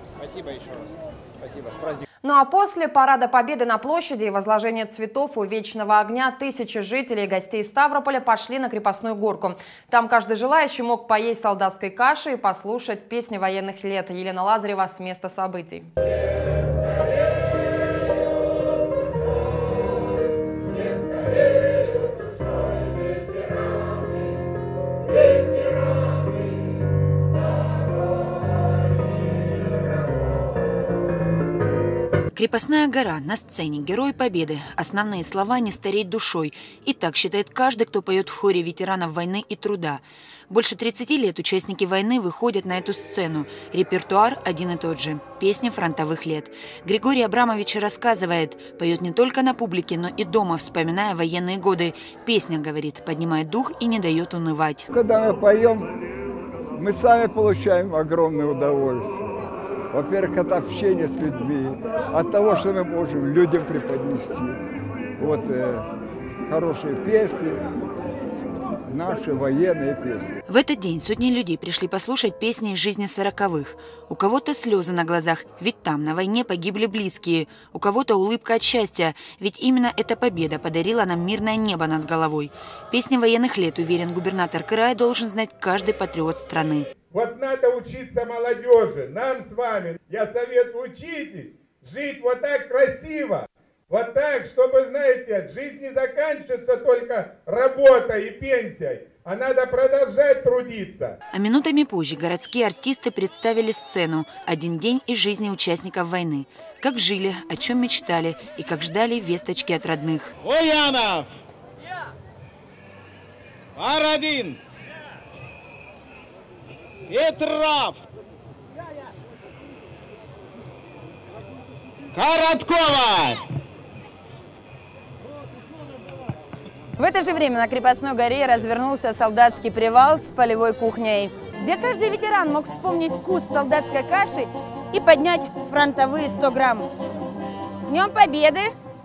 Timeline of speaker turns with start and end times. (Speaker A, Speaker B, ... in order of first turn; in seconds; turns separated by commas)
Speaker A: 2.2-15.9, Speaker B: 32.3-54.9, Speaker C: 54.9-55.9, Speaker C: 56.8-59.3, Speaker C: 59.9-64.6, Speaker C: 65.2-65.8, Speaker C: 66.5-67.6, Speaker C: 68.9-70.3, Speaker B: 70.5-86.9, Speaker D: 87.1-101.1, Speaker B: 101.3-110.3, Speaker E: 110.4-111.3, Speaker E: 113.8-114.6, Speaker E: 117.1-118.0, Speaker E: 122.1-123.4, Speaker F: 127.0-136.9, Speaker F: 137.8-138.7